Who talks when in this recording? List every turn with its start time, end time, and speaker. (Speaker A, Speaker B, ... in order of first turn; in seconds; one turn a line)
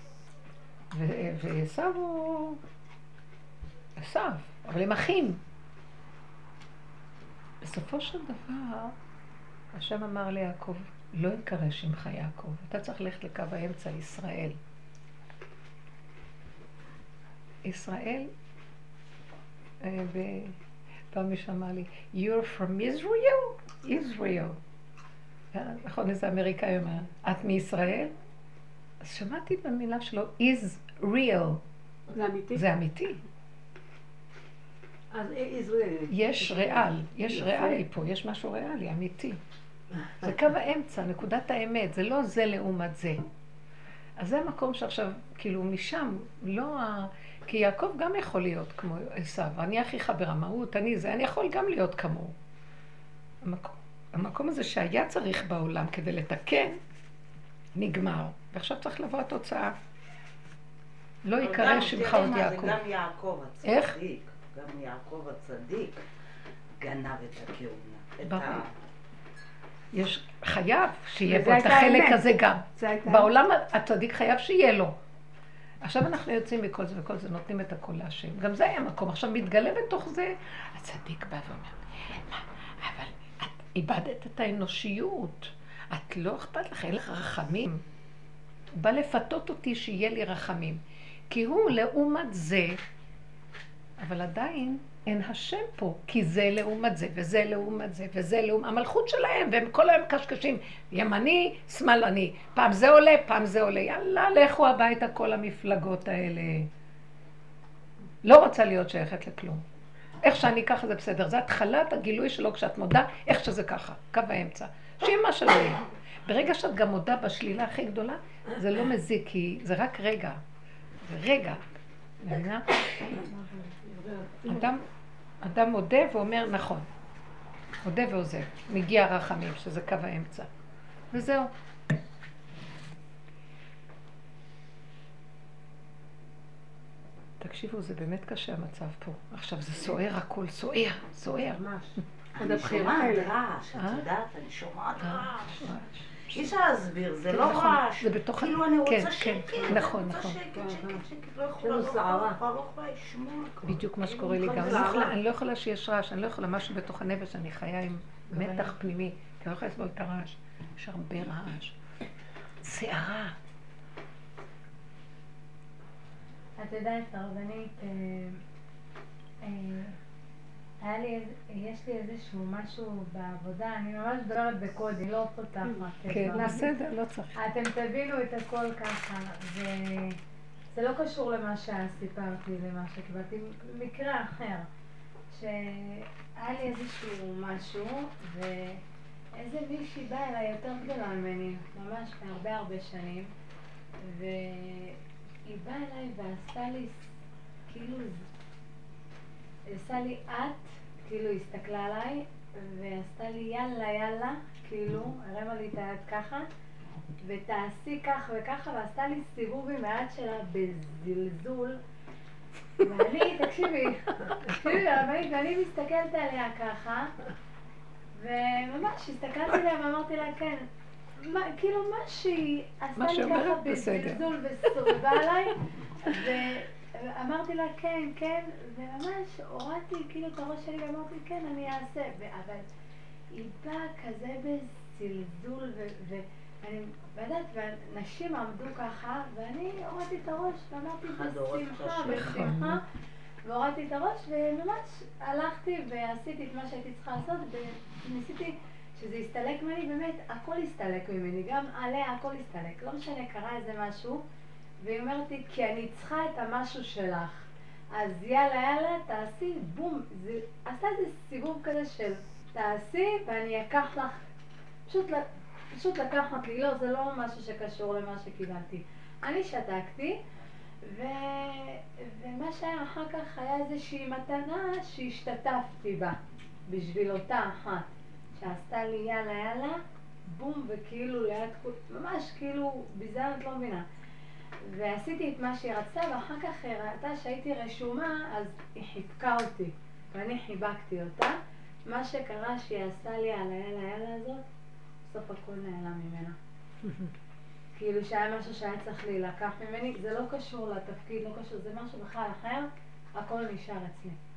Speaker A: 0.9-2.6
Speaker A: 4.0-5.4
Speaker A: 7.6-8.9
Speaker A: 9.7-14.6
Speaker A: 17.6-18.3
Speaker A: 19.8-20.6
Speaker A: 21.1-24.6
Speaker A: 25.5-28.1
Speaker A: 29.0-31.6
Speaker B: 32.1-32.6
Speaker A: 32.5-33.2
Speaker C: 35.1-37.8
Speaker A: 36.1-39.4
Speaker A: 40.2-43.2
Speaker A: 44.2-52.3
Speaker A: 53.4-56.8
Speaker A: 57.7-59.7
Speaker A: 61.2-62.8
Speaker D: 61.4-66.0
Speaker A: 63.6-64.0
Speaker D: 66.8-68.7
Speaker A: 68.2-68.7
Speaker A: 69.9-75.0
Speaker B: 71.2-73.3
Speaker A: 75.8-87.8
Speaker A: 88.7-92.8
Speaker A: 94.0-106.7
Speaker A: 108.2-109.6
Speaker A: 110.2-120.4
Speaker A: 121.0-121.6
Speaker A: 122.2-123.2
Speaker C: 123.1-124.7
Speaker A: 124.4-124.8
Speaker A: 125.4-126.9
Speaker A: 127.8-130.5
Speaker A: 131.1-131.5
Speaker A: 137.4-141.6
Speaker C: 141.4-142.0
Speaker D: 142.3-145.7
Speaker B: 142.4-143.3
Speaker A: 143.7-144.1
Speaker A: 145.0-146.5
Speaker D: 146.3-153.8
Speaker A: 147.3-150.4
Speaker C: 150.5-151.0
Speaker C: 151.6-152.4
Speaker A: 153.6-161.8
Speaker C: 154.0-155.2
Speaker D: 154.5-155.1
Speaker C: 158.3-158.7
Speaker A: 162.6-163.3
Speaker E: 166.6-168.4
Speaker E: 169.4-169.9
Speaker E: 170.8-176.6
Speaker B: 175.7-176.6
Speaker A: 176.1-177.4
Speaker E: 177.3-180.2
Speaker E: 180.7-184.7
Speaker E: 185.3-188.8
Speaker E: 189.3-193.3
Speaker E: 194.0-197.1
Speaker E: 197.7-198.2
Speaker E: 199.7-206.5
Speaker E: 207.2-211.8
Speaker E: 212.8-217.1
Speaker E: 218.1-220.7
Speaker E: 221.2-232.6
Speaker A: 222.9-224.2
Speaker E: 233.3-242.8
Speaker D: 241.0-242.6
Speaker E: 243.4-254.2
Speaker E: 254.8-264.2
Speaker E: 264.9-270.2
Speaker E: 270.8-276.1
Speaker E: 276.7-283.8
Speaker E: 284.6-291.3
Speaker E: 291.9-294.4
Speaker E: 295.0-296.4
Speaker C: 296.8-297.1
Speaker E: 297.8-304.2